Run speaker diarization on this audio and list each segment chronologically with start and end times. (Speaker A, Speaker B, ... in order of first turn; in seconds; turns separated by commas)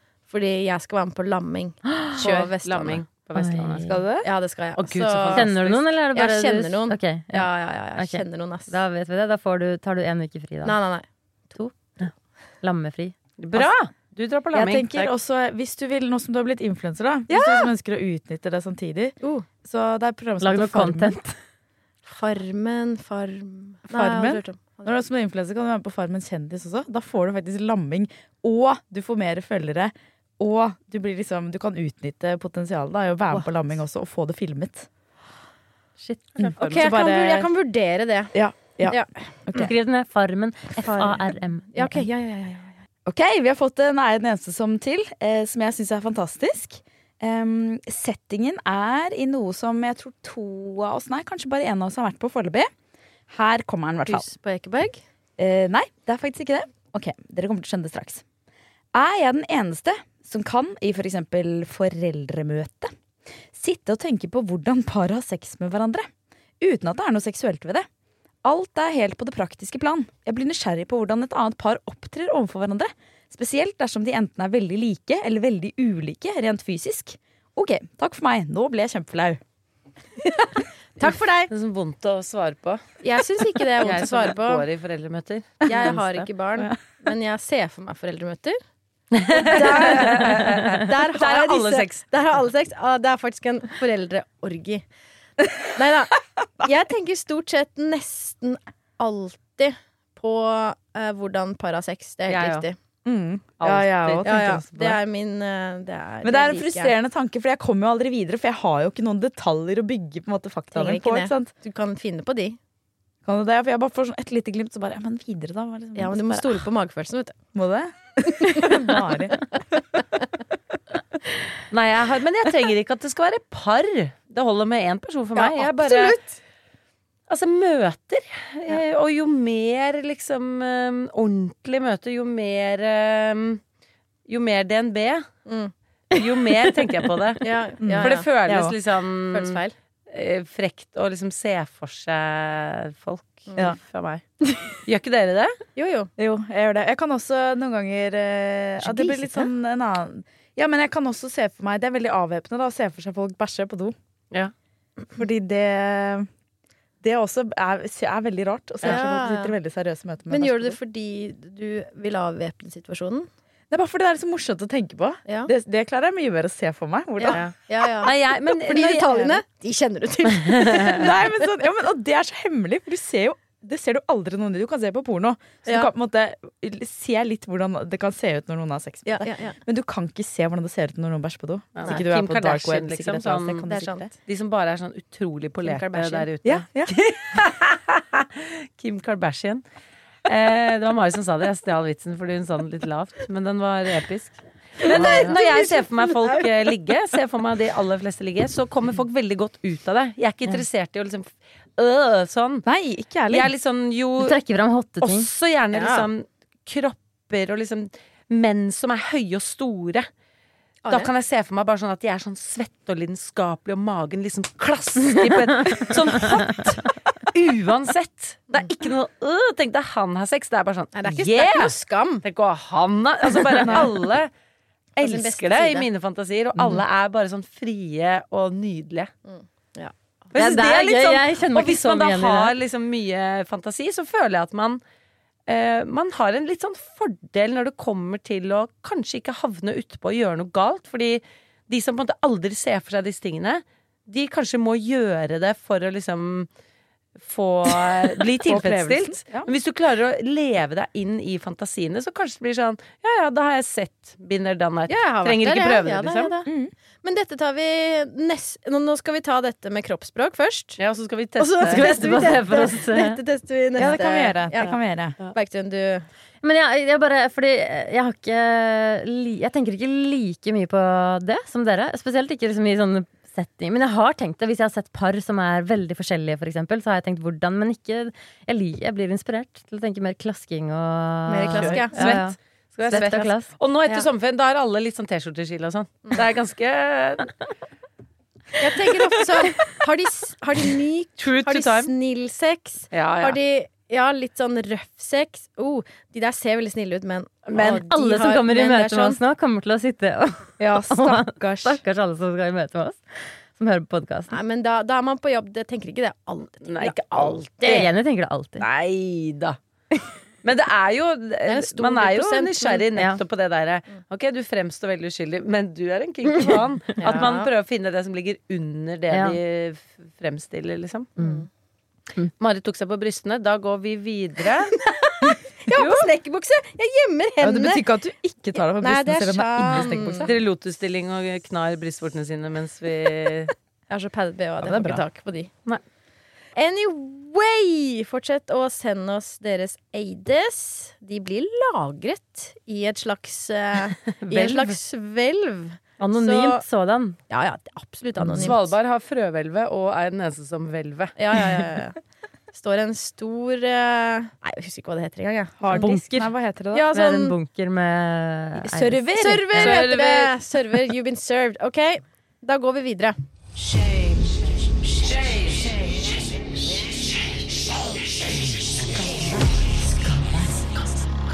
Speaker A: 0.3-3.0, Speaker B: 2.2-3.8, Speaker C: 3.3-4.0, Speaker D: 3.8-4.3, Speaker A: 4.2-5.6, Speaker B: 4.8-5.8, Speaker C: 5.3-10.8, Speaker A: 6.1-8.8, Speaker A: 10.6-11.1, Speaker C: 11.5-13.1, Speaker B: 13.4-14.9, Speaker D: 14.5-21.1, Speaker A: 17.3-17.7, Speaker C: 20.4-21.4, Speaker A: 22.1-24.8, Speaker D: 23.9-34.9, Speaker C: 36.0-36.5, Speaker D: 36.4-37.5, Speaker B: 36.6-36.9, Speaker A: 36.6-39.3, Speaker D: 38.3-39.7, Speaker C: 39.5-41.7, Speaker A: 40.9-42.8, Speaker D: 41.8-42.0, Speaker D: 43.0-52.7, Speaker D: 53.3-54.3, Speaker A: 54.0-55.0, Speaker D: 55.4-58.2, Speaker D: 58.9-62.9, Speaker D: 63.5-66.1, Speaker D: 66.6-67.9, Speaker D: 68.4-79.4, Speaker A: 80.2-81.5, Speaker B: 81.5-83.0, Speaker A: 83.0-84.7, Speaker B: 83.8-86.3, Speaker A: 85.7-88.6, Speaker B: 89.1-92.0, Speaker A: 89.3-94.8, Speaker A: 95.7-102.8, Speaker B: 102.3-102.7, Speaker D: 103.0-105.0, Speaker B: 103.6-104.5, Speaker A: 104.2-106.9, Speaker D: 106.2-111.5, Speaker A: 110.7-112.6, Speaker D: 113.2-116.7, Speaker A: 116.0-117.3, Speaker D: 117.5-120.0, Speaker A: 118.3-119.2, Speaker B: 121.7-126.2, Speaker A: 125.3-126.3, Speaker B: 127.3-133.6, Speaker B: 134.3-135.3, Speaker A: 135.5-135.7, Speaker B: 136.1-137.4, Speaker A: 137.4-138.3, Speaker D: 137.8-138.7, Speaker B: 138.0-144.2, Speaker A: 139.3-139.7, Speaker A: 143.5-143.7, Speaker B: 144.8-145.6, Speaker A: 145.8-146.1, Speaker D: 146.2-153.9, Speaker A: 149.1-149.4, Speaker D: 155.1-156.3, Speaker D: 157.0-160.8, Speaker A: 158.8-159.5, Speaker A: 160.3-163.3, Speaker D: 163.7-168.1, Speaker A: 167.2-171.3, Speaker B: 167.3-169.4, Speaker D: 170.9-184.1, Speaker A: 179.1-179.6, Speaker B: 181.7-183.7, Speaker A: 183.7-184.1, Speaker B: 184.2-189.6, Speaker A: 185.6-186.3, Speaker D: 186.4-186.9, Speaker B: 190.2-202.6, Speaker A: 194.8-196.5, Speaker D: 195.0-195.3, Speaker D: 202.6-203.5, Speaker B: 203.3-204.3, Speaker C: 204.2-205.3, Speaker B: 205.0-210.1, Speaker A: 205.7-206.1, Speaker B: 210.9-224.3, Speaker A: 220.9-222.2, Speaker A: 223.6-223.8, Speaker A: 225.0-225.9, Speaker B: 225.0-229.1, Speaker A: 229.3-229.9, Speaker B: 230.3-234.8, Speaker C: 230.3-232.5, Speaker B: 235.5-246.5, Speaker B: 247.2-256.3, Speaker D: 248.4-249.4, Speaker A: 254.9-256.5, Speaker D: 256.4-256.7, Speaker A: 257.0-260.8, Speaker B: 260.8-262.3, Speaker A: 261.4-266.1, Speaker C: 261.6-263.2, Speaker D: 263.8-265.2, Speaker C: 266.4-282.4, Speaker A: 281.3-282.2, Speaker B: 281.5-287.3, Speaker C: 282.9-283.5, Speaker A: 288.6-299.2, Speaker B: 291.2-291.9, Speaker B: 292.9-293.4, Speaker B: 297.5-297.9, Speaker C: 297.6-304.4, Speaker D: 300.6-301.8, Speaker A: 304.3-307.9, Speaker B: 306.6-307.9, Speaker C: 307.6-308.6, Speaker B: 308.6-309.6, Speaker B: 310.4-321.1, Speaker A: 311.4-312.9, Speaker C: 312.9-313.2, Speaker A: 316.4-317.5, Speaker C: 319.1-319.4, Speaker A: 321.2-321.5, Speaker C: 321.2-321.4, Speaker B: 322.4-324.8, Speaker A: 324.8-327.8, Speaker B: 325.7-326.1, Speaker D: 327.4-330.4, Speaker A: 328.6-330.3, Speaker B: 329.7-333.5, Speaker A: 333.9-335.5, Speaker D: 334.6-335.0, Speaker A: 336.5-346.6, Speaker B: 344.2-344.8, Speaker C: 346.0-347.2, Speaker A: 347.3-348.7, Speaker C: 348.2-348.5, Speaker B: 348.4-351.1, Speaker A: 351.1-352.0, Speaker A: 352.5-355.9, Speaker D: 355.6-356.9, Speaker C: 355.7-356.3, Speaker A: 356.7-357.4, Speaker C: 356.9-359.1, Speaker D: 358.6-360.1, Speaker A: 359.1-363.2, Speaker B: 359.6-360.3, Speaker B: 365.1-365.7